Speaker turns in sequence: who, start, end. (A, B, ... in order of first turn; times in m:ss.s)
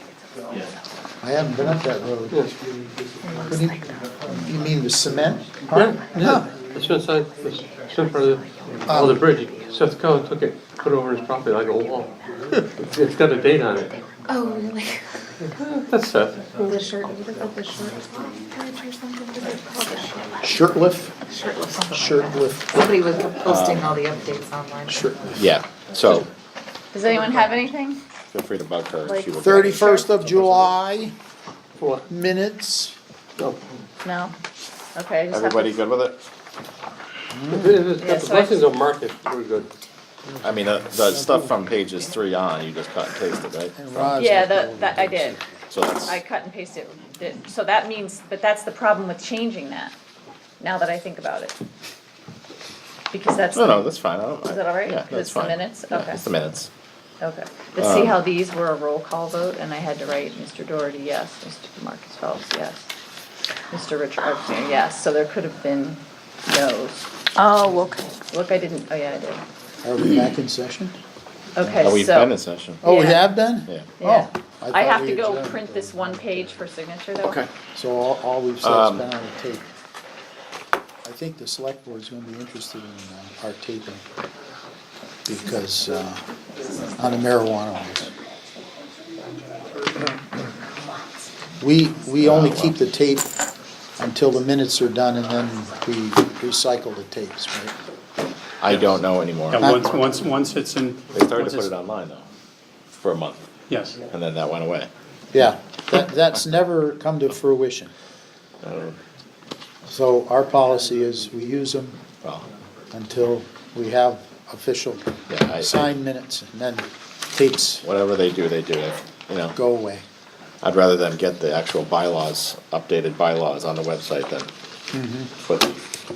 0:01.2-0:02.4 A
0:03.2-0:03.6 B
0:03.4-0:06.5 A
0:05.7-0:12.1 C
0:08.9-0:09.2 A
0:12.8-0:14.0 C
0:14.3-0:15.0 B
0:15.6-0:16.8 C
0:16.6-0:20.3 B
0:20.4-0:21.2 A
0:21.3-0:21.9 B
0:21.9-0:23.0 A
0:22.8-0:25.0 B
0:23.4-0:24.0 D
0:24.9-0:25.4 A
0:25.3-0:26.3 D
0:26.9-0:28.0 E
0:28.3-0:30.0 D
0:29.0-0:30.1 E
0:29.4-0:31.1 A
0:31.8-0:32.0 C
0:32.1-0:32.9 A
0:34.0-0:34.3 E
0:34.9-0:35.8 E
0:35.3-0:36.2 D
0:37.3-0:37.8 A
0:37.5-0:39.7 C
0:38.0-0:38.6 E
0:40.4-0:44.1 D
0:43.8-0:45.4 A
0:44.2-0:45.4 E
0:45.7-0:46.2 D
0:46.0-0:49.9 E
0:50.6-0:51.6 E
0:53.1-0:56.2 E
0:53.5-0:56.7 D
0:57.2-1:02.9 E
0:57.8-0:58.2 D
1:03.7-1:09.4 E
1:09.8-1:10.9 A
1:11.6-1:13.3 E
1:11.8-1:12.8 D
1:12.8-1:16.6 A
1:14.0-1:17.4 E
1:17.7-1:19.6 A
1:18.6-1:19.0 D
1:21.0-1:24.0 A
1:25.2-1:26.2 A
1:27.0-1:28.1 A
1:31.6-1:33.3 A
1:32.2-1:32.7 D
1:34.0-1:37.7 A
1:38.6-1:39.7 D
1:39.5-1:41.7 F
1:39.6-1:40.2 A
1:41.1-1:42.2 D
1:43.0-1:43.4 D
1:43.7-1:44.0 F
1:44.1-1:44.9 D
1:45.3-1:47.9 A
1:48.6-1:49.0 D
1:49.8-1:52.0 A
1:52.9-1:57.8 A
1:55.3-1:55.9 D
1:57.8-1:59.6 D
1:59.5-2:00.0 A
2:00.6-2:04.5 D
2:04.9-2:05.3 A
2:05.4-2:05.8 D